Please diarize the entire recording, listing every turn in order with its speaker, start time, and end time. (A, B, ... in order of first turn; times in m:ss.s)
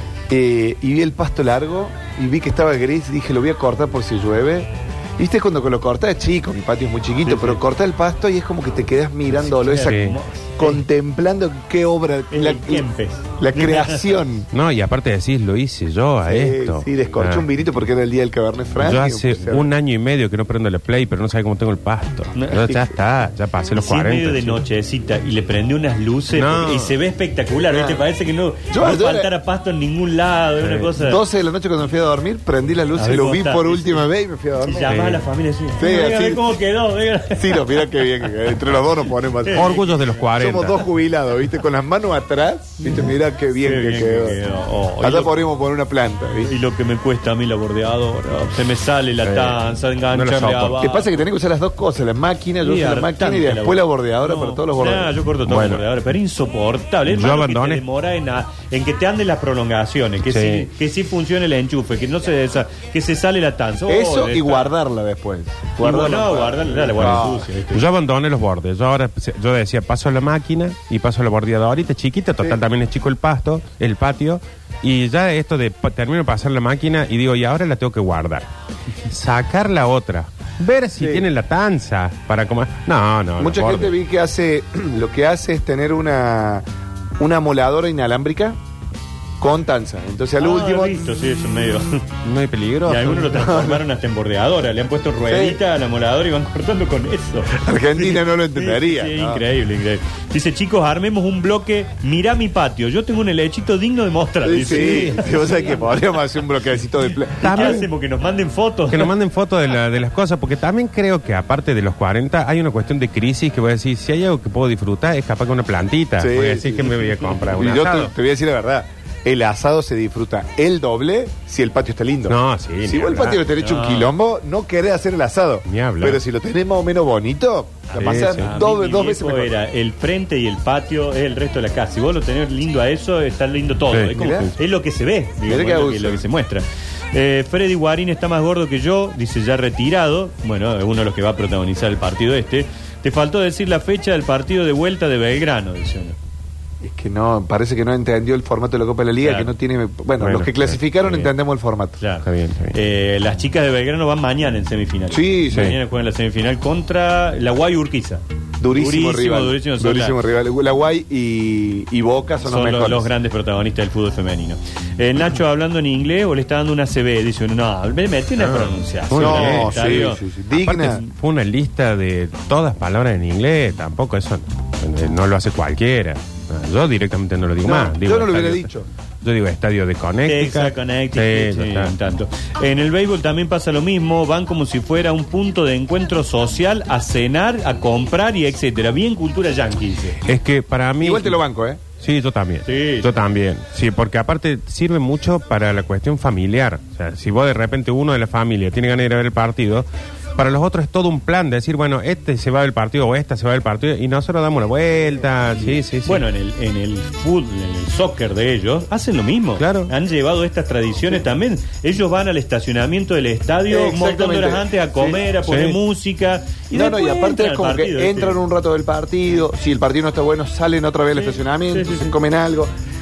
0:00.3-0:12.9 A
0:07.2-0:07.6 B
0:09.3-0:10.8 B
0:09.8-0:10.2 C
0:12.3-0:14.1 B
0:13.4-0:14.5 A
0:14.5-0:17.5 C
0:16.3-0:19.6 A
0:18.8-0:24.6 C
0:22.3-0:22.7 B
0:22.6-0:22.9 A
0:23.8-0:31.2 B
0:26.3-0:27.0 C
0:27.7-0:28.0 A
0:28.7-0:29.3 A
0:30.6-0:30.9 C
0:30.9-0:35.2 A
0:32.9-0:34.0 B
0:34.6-0:38.0 B
0:34.9-0:35.2 C
0:35.8-0:36.5 A
0:37.4-0:44.4 A
0:39.4-0:40.2 B
0:39.5-0:40.9 C
0:42.8-0:45.4 B
0:45.0-0:46.5 A
0:46.4-0:51.2 B
0:49.2-0:50.8 C
0:50.7-0:55.1 A
0:52.6-1:04.7 B
0:55.4-0:55.8 C
0:57.0-0:57.8 C
1:00.3-1:00.7 C
1:03.9-1:07.5 A
1:05.8-1:07.8 B
1:07.0-1:18.5 C
1:19.0-1:23.9 C
1:21.0-1:21.2 A
1:23.4-1:26.6 A
1:27.2-1:28.6 A
1:29.4-1:31.0 A
1:30.4-1:32.0 B
1:32.2-1:33.7 C
1:32.9-1:45.8 B
1:35.2-1:35.6 A
1:37.5-1:39.4 A
1:44.4-1:47.8 A
1:47.4-1:47.8 C
1:47.4-1:49.1 B
1:48.9-1:58.1 C
1:56.2-1:56.9 A
1:57.4-2:09.5 A
2:02.3-2:03.4 C
2:03.5-2:04.1 B
2:05.6-2:06.2 C
2:07.9-2:26.2 B
2:08.0-2:08.5 C
2:13.9-2:14.5 C
2:14.1-2:14.5 A
2:15.4-2:16.2 A
2:26.8-2:32.0 A
2:29.2-2:29.5 B
2:30.2-2:31.3 C
2:32.0-2:40.2 B
2:32.2-2:32.8 C
2:35.1-2:35.8 A
2:35.5-2:35.8 C
2:38.6-2:43.1 A
2:42.4-2:50.2 B
2:48.4-2:58.7 C
2:49.1-2:51.0 A
2:57.6-2:58.9 A
2:59.2-3:01.9 C
3:00.2-3:10.2 B
3:10.2-3:11.4 C
3:11.0-3:11.8 A
3:12.0-3:26.2 C
3:12.6-3:13.1 B
3:26.0-3:38.4 B
3:29.6-3:29.9 C
3:33.7-3:34.6 A
3:35.2-3:35.8 C
3:36.7-3:42.7 A
3:41.2-3:42.1 B